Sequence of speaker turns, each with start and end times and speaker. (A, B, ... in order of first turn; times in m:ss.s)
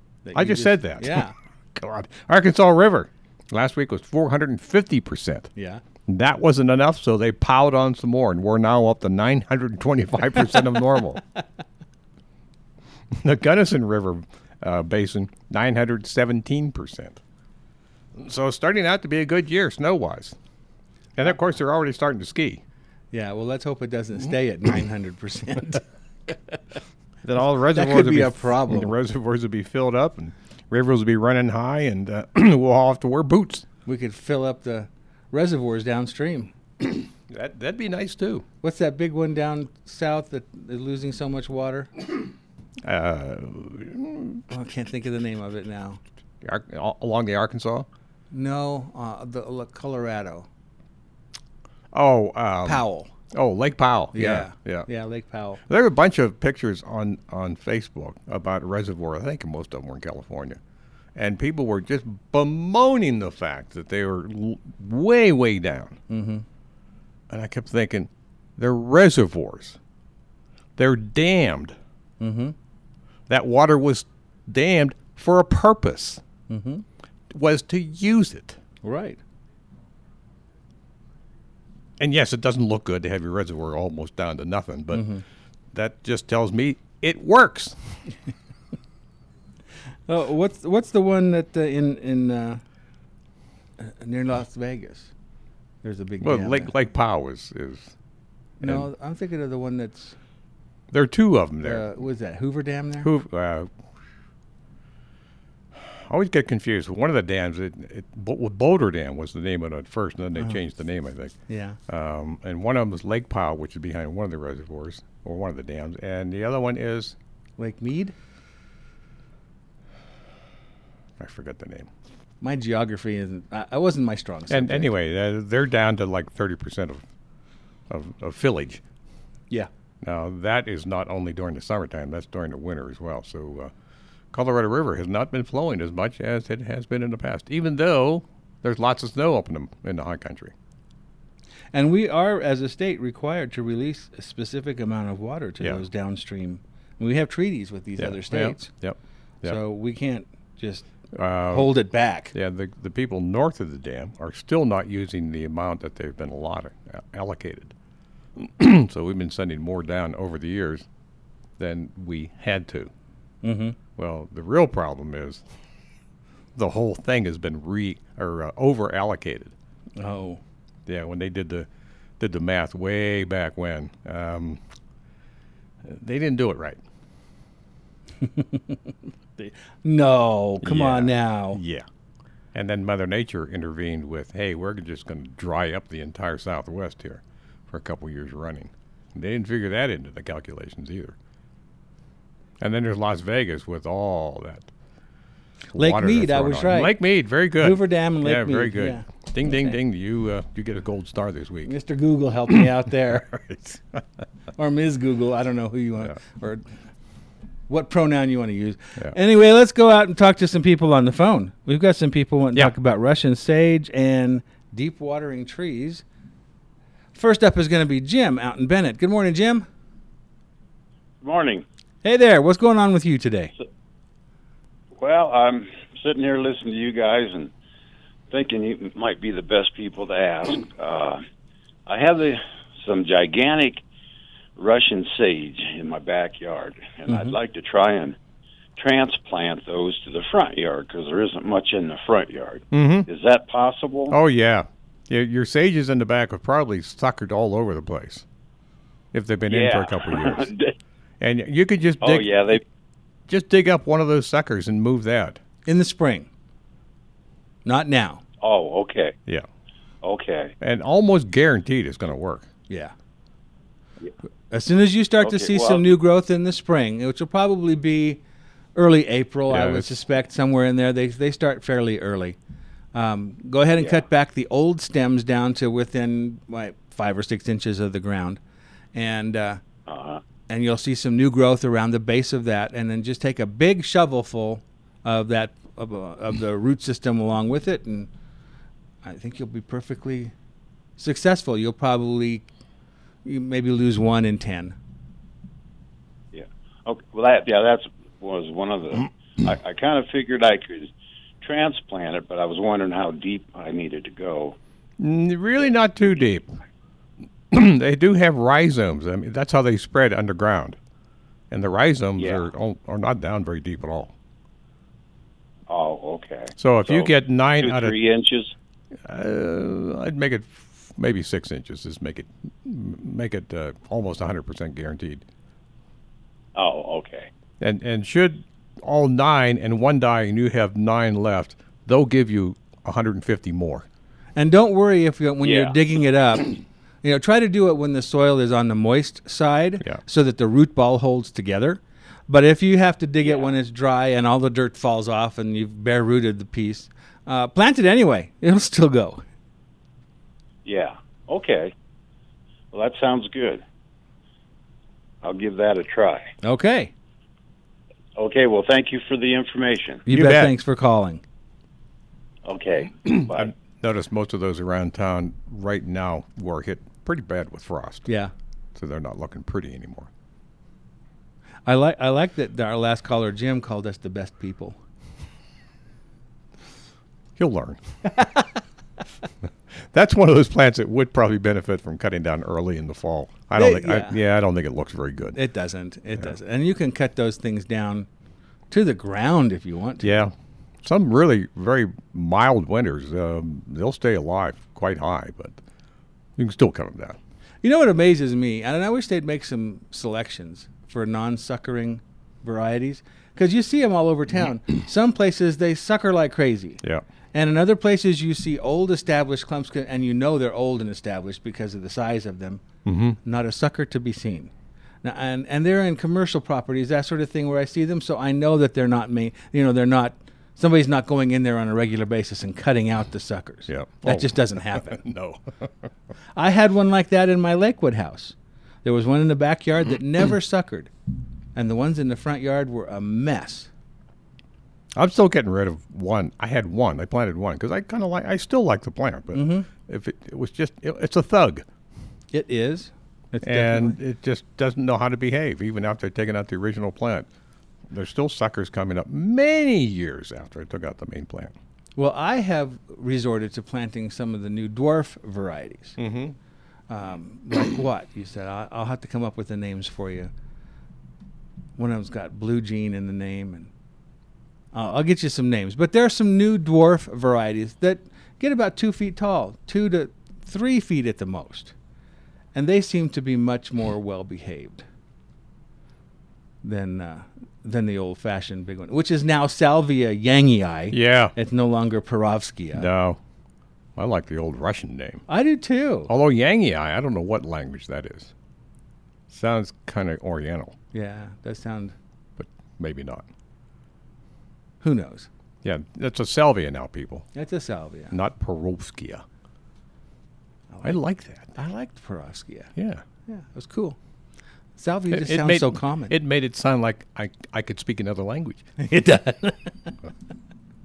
0:00.2-0:01.3 A
0:00.3-0:05.5 B
0:05.6-0:05.8 A
0:06.0-0:11.2 B
0:13.1-0:17.2 B
0:18.2-0:20.4 B
0:21.2-0:22.6 B
0:23.1-0:26.3 A
0:27.2-0:33.6 B
0:27.7-0:28.9 A
0:33.8-0:36.5 A
0:37.3-0:38.4 B
0:38.6-0:41.9 A
0:42.8-0:44.5 B
0:44.5-0:46.0 A
0:46.4-0:47.9 B
0:48.3-0:50.5 A
0:51.9-0:54.9 B
0:52.6-0:53.1 A
0:54.1-0:55.6 A
0:55.7-1:00.6 B
1:01.1-1:06.0 B
1:06.1-1:06.4 A
1:07.3-1:09.8 B
1:10.8-1:11.8 B
1:12.2-1:12.5 A
1:13.3-1:16.2 B
1:16.5-1:16.8 A
1:17.3-1:18.6 B
1:18.8-1:19.2 A
1:22.0-1:25.1 B
1:24.9-1:25.2 A
1:25.7-1:27.8 B
1:30.1-1:32.6 A
1:33.8-1:35.1 A
1:35.8-1:36.7 A
1:36.2-1:37.9 B
1:38.6-1:38.9 B
1:38.6-1:40.2 A
1:40.9-1:41.9 B
1:41.6-1:43.1 A
1:43.0-1:43.7 B
1:45.8-1:51.3 B
1:51.5-1:51.8 A
1:51.9-1:57.1 B
1:57.6-1:58.1 A
2:01.2-2:01.9 B
2:02.4-2:04.9 A
2:04.5-2:07.0 B
2:07.9-2:08.8 B
2:10.0-2:13.7 B
2:14.3-2:20.5 B
2:21.7-2:28.7 A
2:28.0-2:29.6 B
2:29.4-2:30.9 A
2:31.1-2:31.7 B
2:31.5-2:32.3 A
2:32.3-2:37.7 B
2:38.4-2:40.8 B
2:41.6-2:42.9 B
2:43.4-2:43.8 A
2:44.0-2:45.4 B
2:46.6-2:49.5 B
2:50.0-2:50.4 A
2:50.9-2:51.7 B
2:52.2-2:54.6 B
2:55.8-2:56.8 B
2:58.2-3:01.6 A
3:00.6-3:01.8 B
3:02.5-3:11.2 B
3:12.6-3:14.7 B
3:15.7-3:21.7 B
3:15.7-3:17.0 A
3:17.6-3:19.1 A
3:21.6-3:23.3 A
3:23.1-3:24.0 B
3:24.6-3:26.6 A
3:27.7-3:36.0 A
3:37.1-3:39.6 A
3:41.2-3:41.6 C
3:42.0-3:43.5 A
3:45.0-3:47.5 C
3:48.3-3:51.2 C
3:51.8-3:53.8 C
3:54.6-3:58.2 C
3:57.1-3:57.3 A
3:58.8-4:04.1 C
4:02.7-4:03.1 B
4:04.1-4:08.2 B
4:09.1-4:10.5 B
4:09.5-4:10.7 C
4:11.2-4:12.6 B
4:12.0-4:12.6 C
4:13.3-4:15.4 B
4:15.6-4:16.3 A
4:17.6-4:18.2 A
4:18.4-4:19.1 C
4:20.0-4:20.5 C
4:20.6-4:22.5 B
4:22.7-4:22.9 A
4:24.5-4:28.2 A
4:25.2-4:25.8 C
4:28.7-4:32.4 A
4:29.5-4:29.9 B
4:32.9-4:38.4 A
4:38.9-4:39.6 A
4:39.9-4:40.2 C
4:40.5-4:48.1 A
4:49.0-4:50.3 A
4:51.0-4:52.4 A
4:53.2-4:54.8 A
4:56.3-5:04.6 C
5:05.0-5:06.6 B
5:07.5-5:10.8 B
5:11.5-5:14.1 B
5:12.2-5:12.4 C
5:15.7-5:18.5 C
5:16.6-5:17.9 B
5:19.0-5:25.2 B
5:26.5-5:27.3 C
5:27.6-5:33.8 B
5:34.4-5:49.2 A
5:35.4-5:35.8 C
5:43.2-5:43.5 C
5:50.6-5:51.7 C
5:52.7-5:53.6 C
5:55.2-5:56.3 C
5:56.4-5:56.9 A
5:58.2-6:00.0 C
6:00.1-6:01.2 A
6:00.1-6:00.5 B
6:02.4-6:03.5 C
6:03.3-6:08.1 B
6:08.0-6:08.3 A
6:08.7-6:10.1 B
6:11.6-6:14.8 A
6:17.4-6:17.8 B
6:18.2-6:18.4 A
6:19.9-6:25.4 B
6:23.5-6:24.2 A
6:25.3-6:28.1 A
6:28.7-6:30.3 A
6:30.0-6:35.6 B
6:36.4-6:37.2 B
6:37.6-6:46.8 A
6:47.3-6:52.6 A
6:52.8-6:53.2 B
6:53.2-6:54.5 A
6:55.0-7:05.0 A
7:03.7-7:05.7 B
7:06.4-7:10.9 A
7:11.5-7:13.7 A
7:14.9-7:21.6 B
7:19.3-7:19.7 A
7:22.3-7:24.0 A
7:23.4-7:27.3 B
7:27.9-7:31.5 B
7:32.0-7:36.0 A
7:36.0-7:36.3 B
7:36.9-7:40.3 A
7:41.8-7:43.7 A
7:44.7-7:51.7 A
7:52.5-7:54.8 A
7:56.6-8:02.9 A
8:00.9-8:01.3 B
8:02.7-8:03.2 B
8:04.0-8:05.2 B
8:05.3-8:06.1 A
8:06.1-8:08.3 B
8:09.3-8:10.8 B
8:10.9-8:11.9 A
8:12.4-8:13.2 B
8:14.8-8:15.3 A
8:15.6-8:17.3 B
8:17.3-8:18.1 A
8:18.1-8:19.2 B
8:20.7-8:21.0 A
8:20.8-8:21.5 B
8:21.5-8:22.7 A
8:22.8-8:23.0 B
8:23.3-8:24.0 A
8:24.8-8:26.1 A
8:25.1-8:28.7 B
8:28.8-8:29.9 A